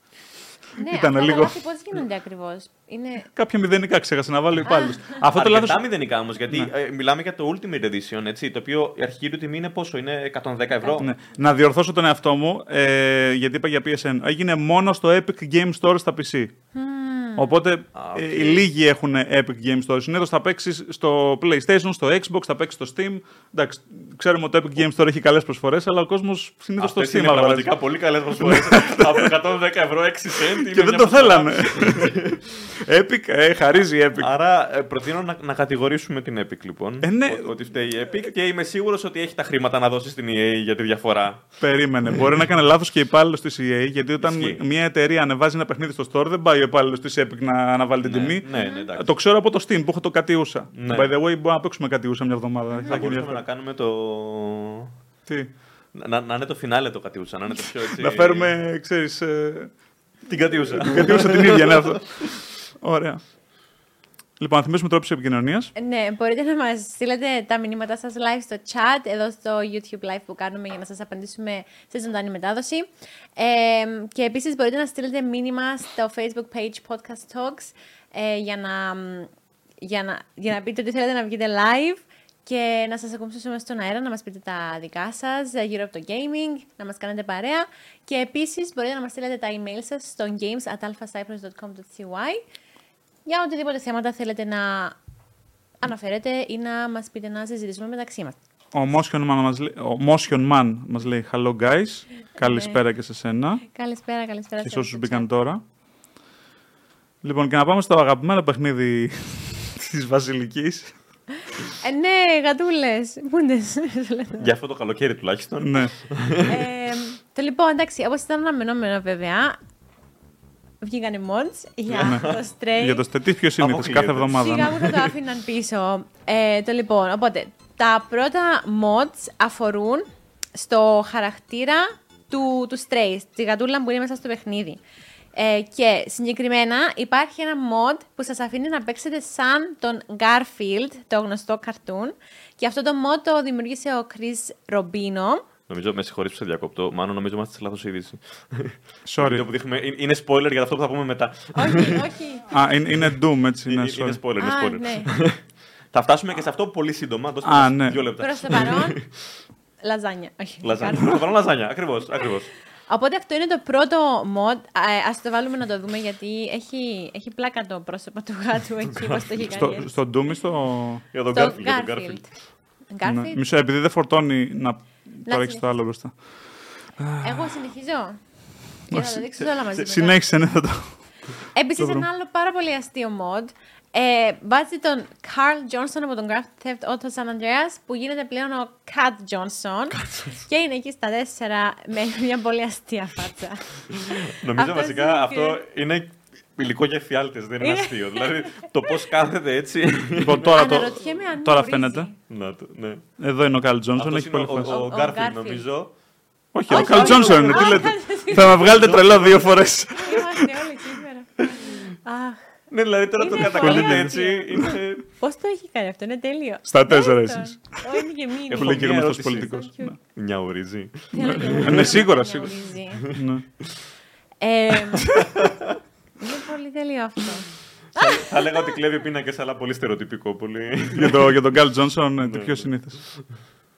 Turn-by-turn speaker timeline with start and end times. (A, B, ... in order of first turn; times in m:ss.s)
0:00.8-0:03.3 A
0:00.9-0:01.6 B
0:03.3-0:05.8 B
0:04.6-0:05.0 A
0:05.3-0:11.1 C
0:10.8-0:11.1 A
0:11.0-0:16.5 B
0:16.7-0:17.6 A
0:17.4-0:27.8 B
0:17.9-0:18.7 C
0:26.8-0:32.4 C
0:28.4-0:29.3 B
0:30.6-0:34.3 B
0:34.2-0:41.4 C
0:37.0-0:37.5 B
0:41.6-0:53.4 B
0:44.2-0:44.6 C
0:48.0-0:49.1 C
0:48.6-0:48.9 A
0:50.7-0:51.1 C
0:52.9-0:54.9 C
0:55.3-0:55.5 B
0:55.9-0:58.5 C
0:57.9-0:59.7 B
1:00.2-1:02.3 C
1:00.8-1:03.2 B
1:04.4-1:05.7 B
1:05.7-1:19.3 A
1:19.8-1:32.4 A
1:33.2-1:35.0 A
1:35.8-1:38.4 A
1:38.7-1:43.6 B
1:42.4-1:42.8 A
1:43.6-1:45.2 A
1:44.6-1:45.6 B
1:47.2-1:50.9 B
1:51.3-1:54.5 A
1:54.4-1:56.7 C
1:55.6-1:55.9 B
1:56.4-1:59.6 A
2:00.8-2:03.0 A
2:01.9-2:02.4 C
2:02.7-2:05.0 B
2:03.6-2:04.7 C
2:04.3-2:14.8 A
2:15.3-2:25.4 A
2:25.7-2:32.1 C
2:29.0-2:29.4 B
2:31.5-2:32.5 A
2:32.5-2:34.2 B
2:33.6-2:39.1 C
2:34.4-2:35.1 A
2:37.4-2:38.0 B
2:38.2-2:39.0 A
2:39.8-2:41.3 A
2:40.6-2:42.5 C
2:42.9-2:49.9 A
2:48.9-2:49.8 C
2:49.4-2:51.0 B
2:51.1-2:52.2 C
2:51.3-2:52.3 A
2:52.9-2:53.4 A
2:53.0-2:56.1 B
2:55.2-2:55.6 A
2:57.0-2:57.6 B
2:57.2-2:58.2 A
2:58.9-3:00.2 A
2:58.9-3:00.9 B
3:01.5-3:15.6 A
3:01.8-3:02.1 B
3:10.0-3:10.3 C
3:13.9-3:21.0 C
3:17.6-3:18.9 A
3:20.2-3:22.1 B
3:20.4-3:22.2 A
3:22.3-3:23.0 C
3:23.2-3:24.8 B
3:24.0-3:25.9 C
3:24.6-3:25.7 A
3:26.5-3:30.7 B
3:26.7-3:29.6 C
3:26.7-3:28.7 A
3:29.9-3:32.4 A
3:31.4-3:31.8 C
3:32.7-3:35.0 C
3:33.2-3:39.9 A
3:33.4-3:34.8 B
3:36.7-3:38.0 B
3:38.5-3:39.5 C
3:38.5-3:39.9 B
3:40.1-3:42.0 C
3:41.1-3:43.1 A
3:41.2-3:43.4 B
3:43.0-3:43.7 C
3:44.4-3:45.3 A
3:45.0-3:45.8 C
3:46.2-3:48.8 A
3:47.9-3:51.6 C
3:50.9-3:53.1 B
3:52.2-3:53.2 C